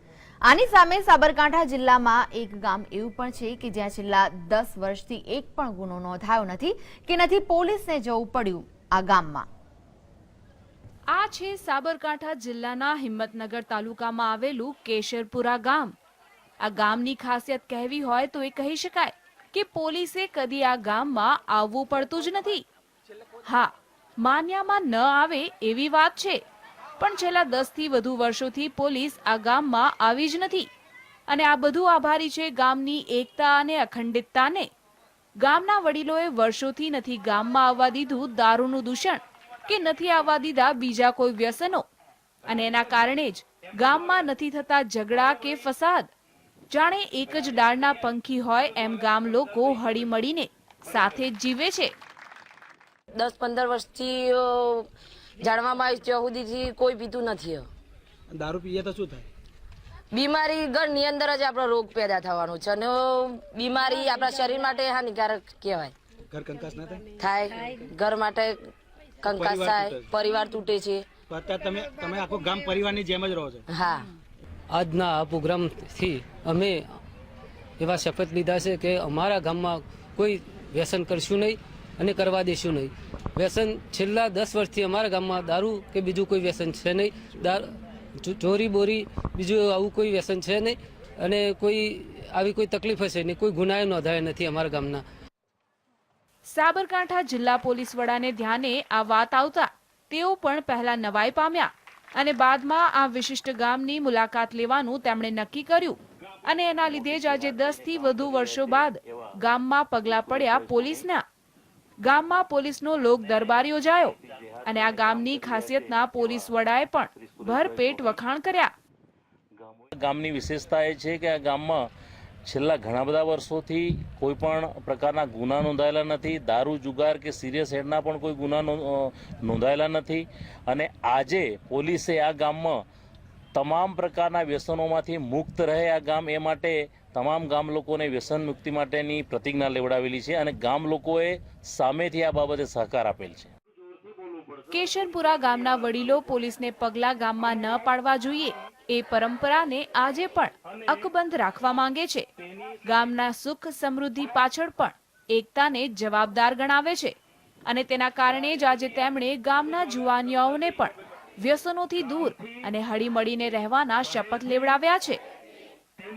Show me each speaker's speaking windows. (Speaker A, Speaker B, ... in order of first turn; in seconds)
Speaker A: 0.4-9.5
Speaker B: 11.1-15.9, 16.6-22.6, 23.4-26.4, 27.0-30.7, 31.3-34.7, 35.4-41.9, 42.5-46.1, 46.7-51.9, 96.5-111.2, 112.0-118.7, 144.7-152.3, 152.8-157.1, 157.7-165.2
Speaker C: 53.1-57.7, 60.1-65.9, 67.2-71.1, 73.7-74.1
Speaker D: 58.3-59.2, 66.3-67.1, 69.3-70.1, 71.3-73.6
Speaker E: 74.7-76.9, 77.8-95.0
Speaker F: 106.9-109.3, 110.1-111.0, 114.2-116.5, 117.2-118.2, 119.6-121.8, 122.5-132.7, 133.5-143.5